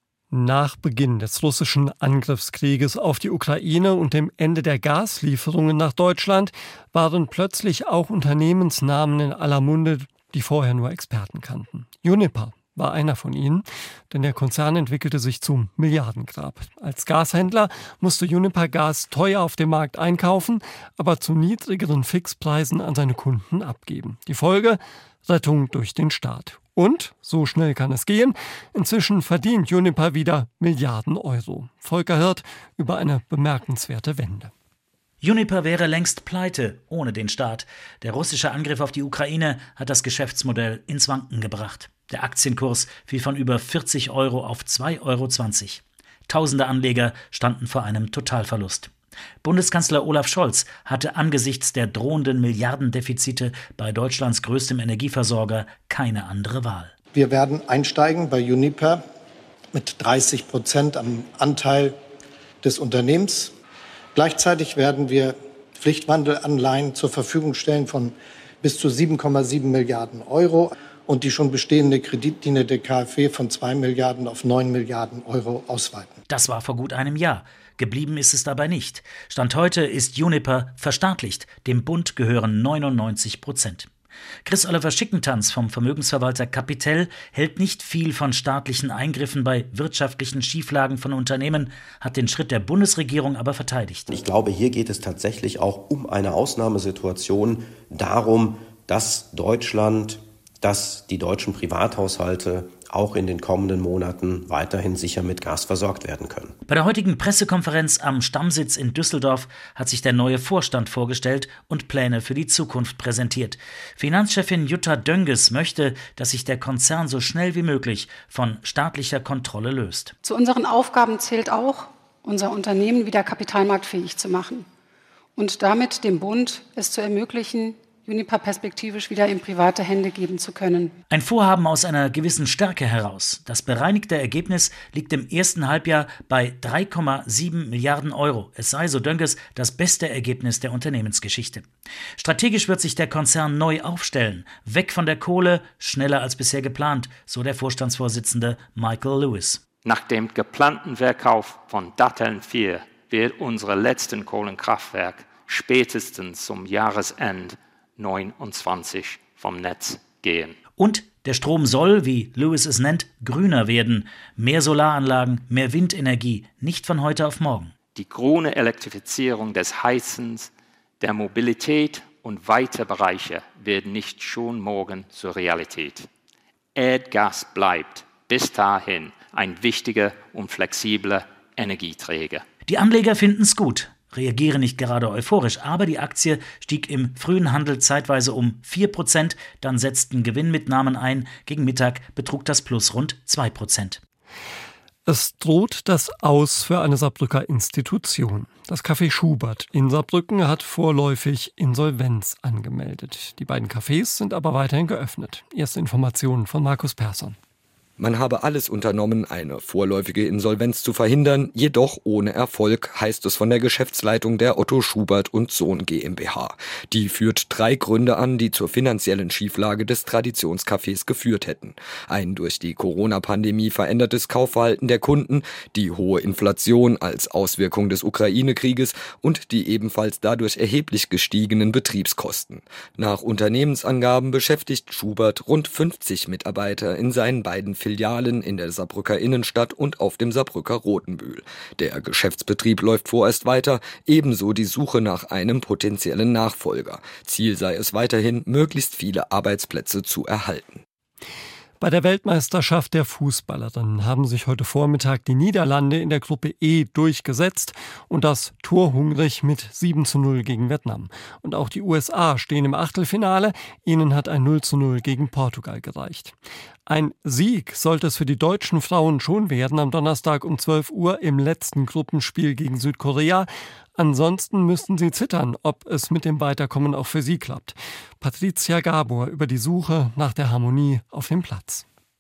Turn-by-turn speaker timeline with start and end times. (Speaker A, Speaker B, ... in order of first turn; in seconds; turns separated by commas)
Speaker A: 0.3-34.5, Speaker B: 35.2-48.9, Speaker B: 49.4-56.9, Speaker C: 57.1-59.0, Speaker C: 59.7-62.0, Speaker C: 62.6-63.5, Speaker C: 64.2-76.2, Speaker B: 76.3-83.9, Speaker B: 84.5-94.1, Speaker D: 94.1-106.5, Speaker B: 106.7-120.1, Speaker E: 120.2-124.7, Speaker E: 125.4-131.0, Speaker B: 131.1-141.7, Speaker B: 142.2-149.7, Speaker F: 149.8-160.6, Speaker B: 160.8-167.8, Speaker F: 167.9-176.1, Speaker F: 176.8-182.4, Speaker B: 182.7-194.0, Speaker A: 195.1-207.4, Speaker G: 208.0-250.8, Speaker A: 251.8-266.4, Speaker A: 266.9-281.9